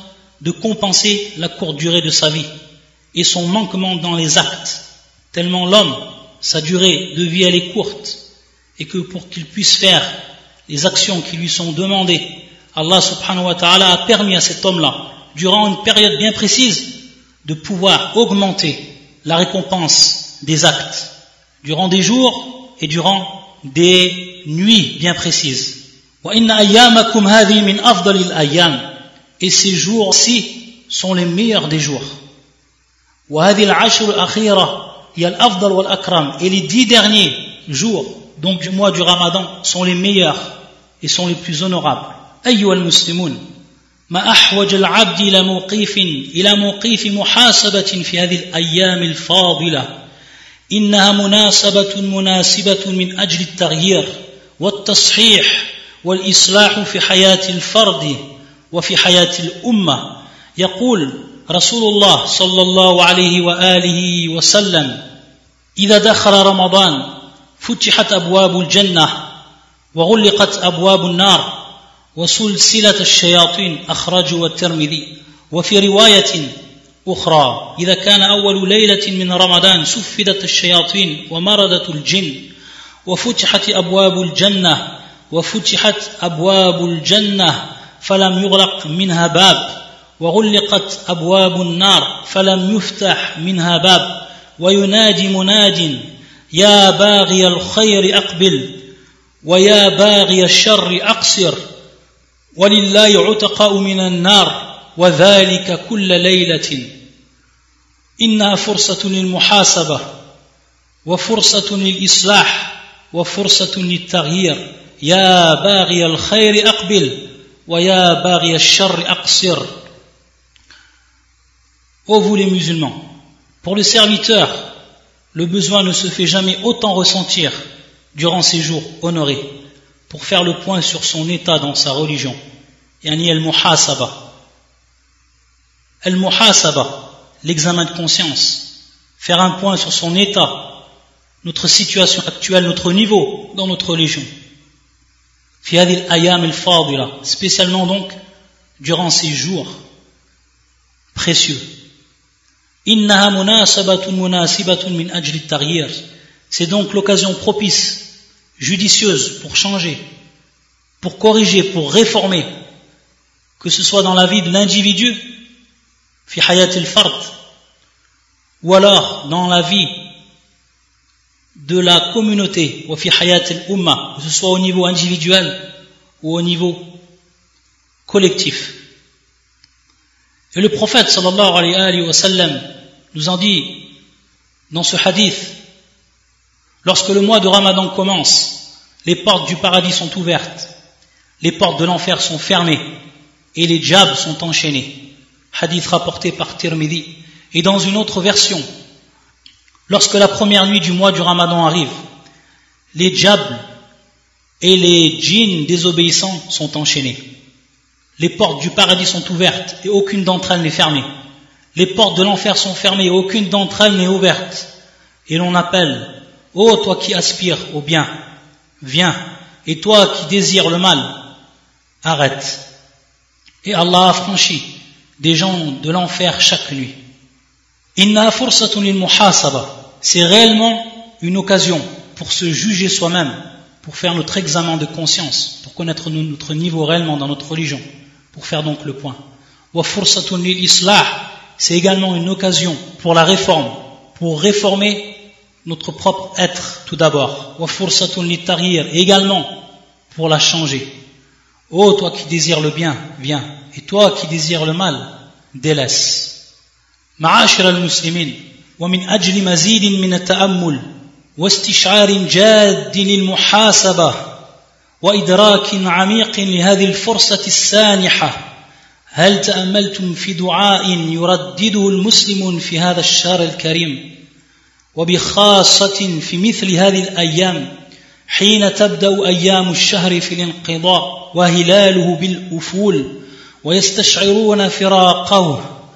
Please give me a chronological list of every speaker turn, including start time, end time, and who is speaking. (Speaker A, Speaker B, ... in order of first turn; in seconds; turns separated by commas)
Speaker A: 0.4-2.5, Speaker A: 3.1-8.2, Speaker A: 8.8-10.1, Speaker A: 10.7-16.9, Speaker A: 17.4-21.1, Speaker A: 21.6-28.9, Speaker A: 29.4-32.2, Speaker A: 33.3-40.5, Speaker A: 41.0-43.4, Speaker A: 44.1-49.9, Speaker A: 50.7-60.0, Speaker A: 60.6-65.0, Speaker A: 65.8-67.1, Speaker A: 67.6-69.2, Speaker A: 70.0-71.5, Speaker A: 72.2-76.5, Speaker A: 77.0-82.4, Speaker A: 83.1-98.7, Speaker A: 99.4-101.6, Speaker A: 102.6-106.9, Speaker A: 108.2-110.0, Speaker A: 111.1-119.7, Speaker A: 122.1-123.0, Speaker A: 123.6-124.7, Speaker A: 125.3-129.4, Speaker A: 130.1-132.4, Speaker A: 133.0-134.2, Speaker A: 136.0-138.7, Speaker A: 139.2-140.6, Speaker A: 141.4-144.3, Speaker A: 145.6-148.2, Speaker A: 148.8-149.8, Speaker A: 151.1-151.6, Speaker A: 152.8-158.0, Speaker A: 158.6-160.0, Speaker A: 161.0-162.5, Speaker A: 163.6-165.2, Speaker A: 166.3-167.3, Speaker A: 168.6-170.0, Speaker A: 171.6-175.6, Speaker A: 176.2-176.8, Speaker A: 178.1-178.8, Speaker A: 180.5-183.8, Speaker A: 184.7-185.6, Speaker A: 186.8-190.7, Speaker A: 191.4-192.8, Speaker A: 193.6-194.9, Speaker A: 195.5-198.7, Speaker A: 199.9-202.0, Speaker A: 202.9-203.6, Speaker A: 204.6-207.2, Speaker A: 208.2-211.1, Speaker A: 211.8-214.7, Speaker A: 215.3-218.1, Speaker A: 218.8-221.1, Speaker A: 222.0-222.6, Speaker A: 223.6-224.7, Speaker A: 225.2-227.0, Speaker A: 228.0-239.2, Speaker A: 239.7-245.1, Speaker A: 245.7-249.5, Speaker A: 250.1-250.9, Speaker A: 251.7-256.3, Speaker A: 257.2-264.2, Speaker A: 265.0-268.4, Speaker A: 269.1-274.0, Speaker A: 274.9-277.7, Speaker A: 278.3-283.1, Speaker A: 283.6-285.6